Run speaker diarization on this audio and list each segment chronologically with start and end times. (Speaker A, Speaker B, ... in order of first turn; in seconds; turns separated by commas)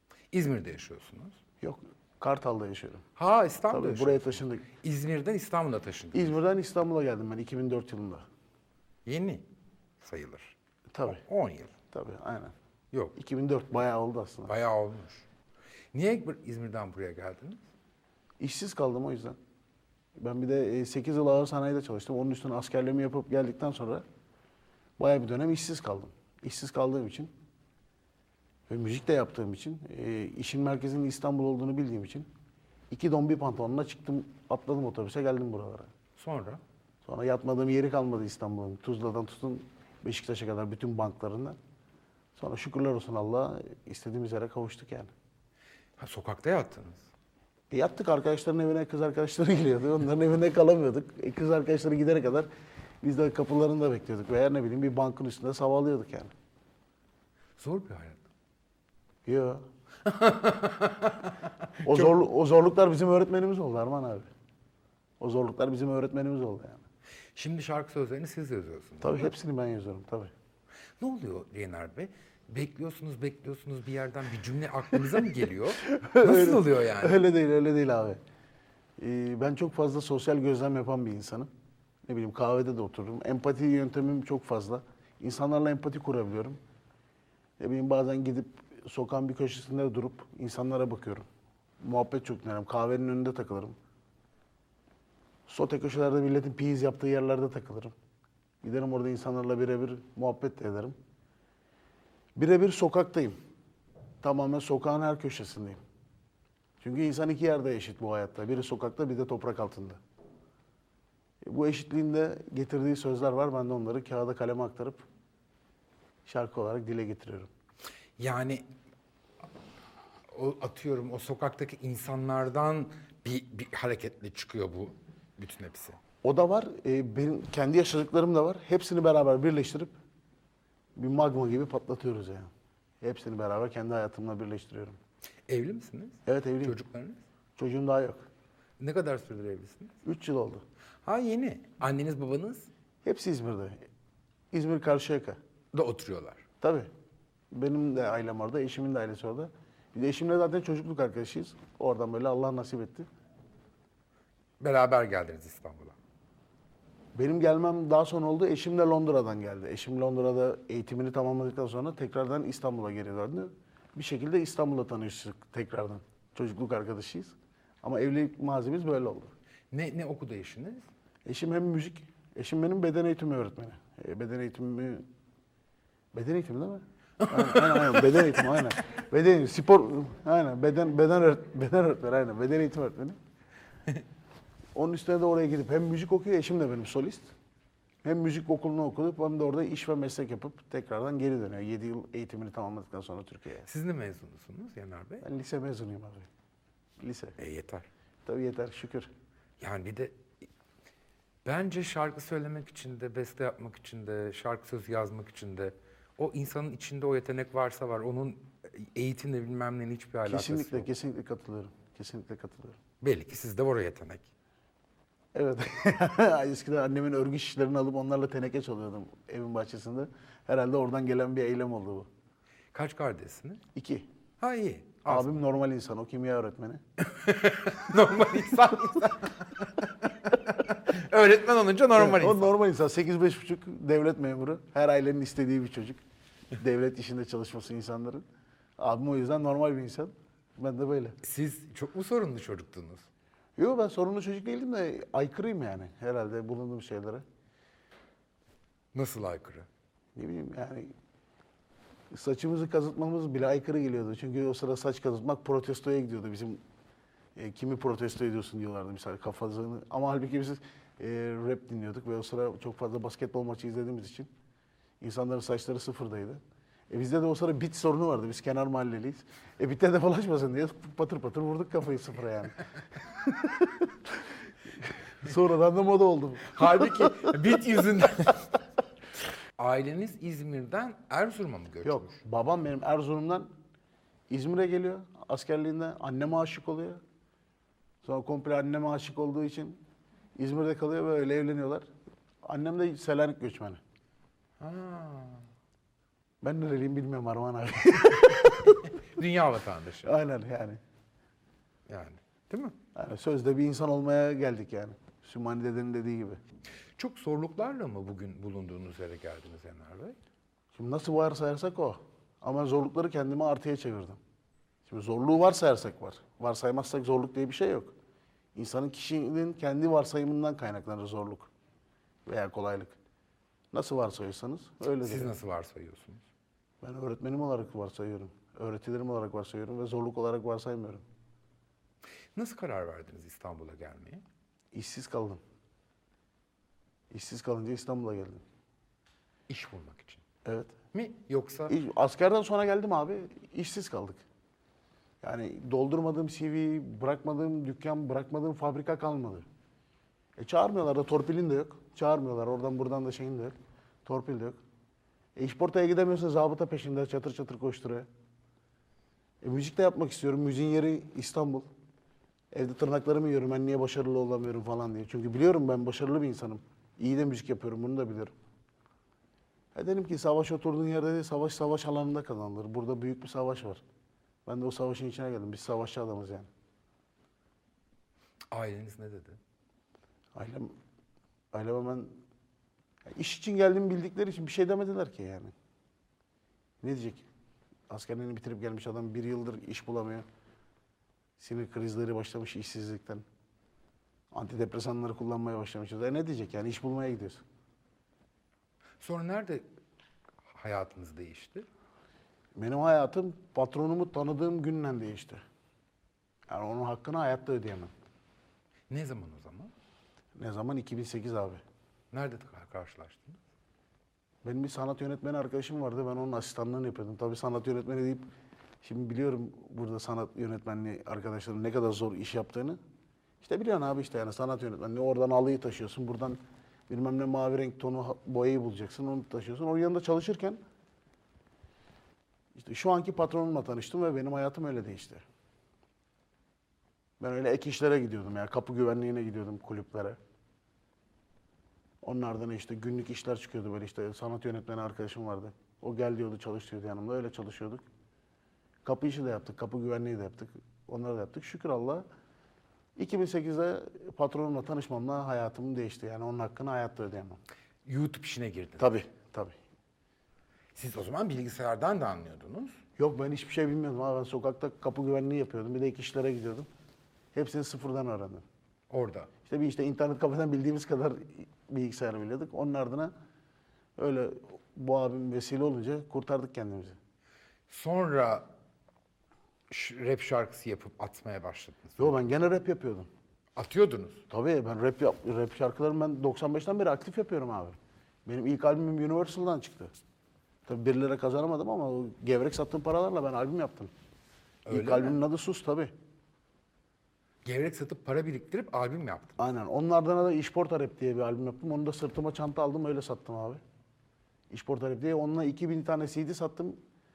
Speaker A: 0.3-1.4, Speaker B: 1.6-3.0, Speaker A: 3.2-6.4, Speaker B: 3.7-4.7, Speaker B: 6.1-8.2, Speaker A: 9.1-9.4, Speaker A: 10.0-10.6, Speaker B: 10.9-11.2, Speaker A: 11.1-11.8, Speaker B: 11.9-12.5, Speaker A: 12.9-13.2, Speaker B: 13.2-14.5, Speaker A: 14.5-15.3, Speaker A: 15.9-17.7, Speaker B: 18.4-19.4, Speaker B: 20.2-24.0, Speaker B: 25.0-27.3, Speaker B: 28.7-32.3, Speaker B: 32.9-35.9, Speaker A: 36.2-36.6, Speaker B: 37.1-41.6, Speaker B: 42.4-45.1, Speaker A: 46.0-47.1, Speaker B: 47.7-52.5, Speaker B: 53.0-56.3, Speaker A: 57.6-58.2, Speaker B: 59.2-59.6, Speaker A: 60.0-62.2, Speaker B: 61.8-64.3, Speaker B: 65.2-66.8, Speaker A: 67.4-69.3, Speaker B: 69.0-70.3, Speaker A: 71.0-77.2, Speaker B: 75.9-78.2, Speaker B: 79.0-81.5, Speaker B: 82.0-86.6, Speaker B: 87.6-91.3, Speaker B: 91.8-93.8, Speaker B: 95.5-97.9, Speaker B: 98.6-101.0, Speaker B: 102.4-103.4, Speaker B: 104.2-105.8, Speaker B: 106.8-110.0, Speaker B: 111.4-115.0, Speaker B: 116.3-117.5, Speaker A: 118.2-118.7, Speaker A: 120.3-126.0, Speaker B: 126.2-130.0, Speaker B: 131.0-135.0, Speaker A: 135.5-137.2, Speaker B: 136.3-136.8, Speaker B: 137.6-138.2, Speaker A: 138.8-140.0, Speaker B: 140.0-140.6, Speaker A: 141.1-142.7, Speaker B: 143.0-143.8, Speaker B: 144.5-145.4, Speaker A: 145.7-146.4, Speaker B: 146.6-146.9, Speaker B: 147.5-153.1, Speaker A: 154.6-156.0, Speaker B: 157.2-169.3, Speaker A: 169.7-170.9, Speaker B: 171.2-175.1, Speaker B: 176.1-183.2, Speaker A: 177.2-178.6, Speaker B: 184.8-187.3, Speaker B: 188.0-193.7, Speaker A: 193.7-195.3, Speaker B: 195.2-196.3, Speaker B: 197.0-197.4, Speaker A: 197.4-197.9, Speaker B: 198.2-199.1, Speaker A: 199.6-200.2, Speaker A: 201.4-210.9, Speaker B: 210.3-212.8, Speaker A: 213.0-214.3, Speaker B: 215.3-222.1, Speaker A: 222.7-223.6, Speaker B: 223.7-224.1, Speaker A: 224.4-225.4, Speaker B: 225.1-226.8, Speaker A: 227.0-232.5, Speaker B: 232.0-236.0, Speaker B: 236.6-238.2, Speaker B: 238.8-241.2, Speaker A: 241.2-243.1, Speaker B: 243.6-247.2, Speaker A: 248.9-249.7, Speaker B: 250.2-250.9, Speaker B: 252.1-256.6, Speaker B: 257.4-264.3, Speaker B: 265.0-274.2, Speaker B: 274.8-277.4, Speaker A: 276.4-278.6, Speaker A: 279.6-282.2, Speaker B: 281.8-283.5, Speaker B: 284.3-287.0, Speaker B: 288.0-289.8, Speaker B: 290.4-291.9, Speaker B: 292.4-293.8, Speaker A: 294.6-295.5, Speaker B: 296.4-298.8, Speaker A: 298.3-300.1, Speaker B: 300.0-300.8, Speaker A: 301.9-302.8, Speaker B: 302.9-306.4, Speaker A: 307.0-310.2, Speaker B: 310.8-314.2, Speaker B: 314.9-317.9, Speaker B: 318.6-321.5, Speaker B: 322.3-323.0, Speaker B: 323.7-325.3, Speaker A: 325.0-326.2, Speaker B: 326.8-331.0, Speaker A: 332.4-334.2, Speaker B: 334.7-335.4, Speaker B: 337.1-338.4, Speaker A: 339.5-340.2, Speaker B: 340.4-340.7, Speaker A: 340.9-341.8, Speaker B: 341.7-344.2, Speaker B: 345.2-349.5, Speaker B: 350.4-353.5, Speaker B: 354.1-354.6, Speaker B: 355.4-358.1, Speaker B: 359.4-361.7, Speaker B: 362.5-368.3, Speaker B: 369.8-373.8, Speaker B: 374.5-376.5, Speaker A: 378.5-379.4, Speaker B: 380.4-380.7, Speaker B: 381.5-382.2, Speaker B: 383.1-385.5, Speaker B: 386.8-387.3, Speaker B: 387.9-390.2, Speaker B: 391.4-393.2, Speaker B: 394.3-397.4, Speaker A: 399.0-399.6, Speaker A: 400.5-401.7, Speaker B: 402.6-405.4, Speaker B: 406.5-407.9, Speaker A: 408.9-409.7, Speaker B: 410.4-411.6, Speaker A: 412.1-413.4, Speaker B: 414.4-418.2, Speaker B: 418.8-422.8, Speaker B: 423.4-430.6, Speaker B: 432.6-435.2, Speaker B: 437.2-440.2, Speaker B: 442.0-447.9, Speaker B: 448.9-452.1, Speaker B: 453.0-457.4, Speaker A: 457.9-458.9, Speaker B: 458.8-459.6, Speaker A: 460.8-462.8, Speaker B: 463.0-466.7, Speaker B: 467.3-468.4, Speaker A: 468.9-469.3, Speaker B: 469.5-473.1, Speaker B: 474.0-477.0, Speaker A: 477.7-478.5, Speaker A: 479.7-482.2, Speaker B: 482.0-483.1, Speaker A: 483.6-484.2, Speaker B: 484.3-489.9, Speaker B: 490.7-493.9, Speaker A: 494.6-495.2, Speaker B: 494.7-495.9, Speaker A: 497.4-499.4, Speaker B: 499.4-503.6, Speaker B: 504.5-506.8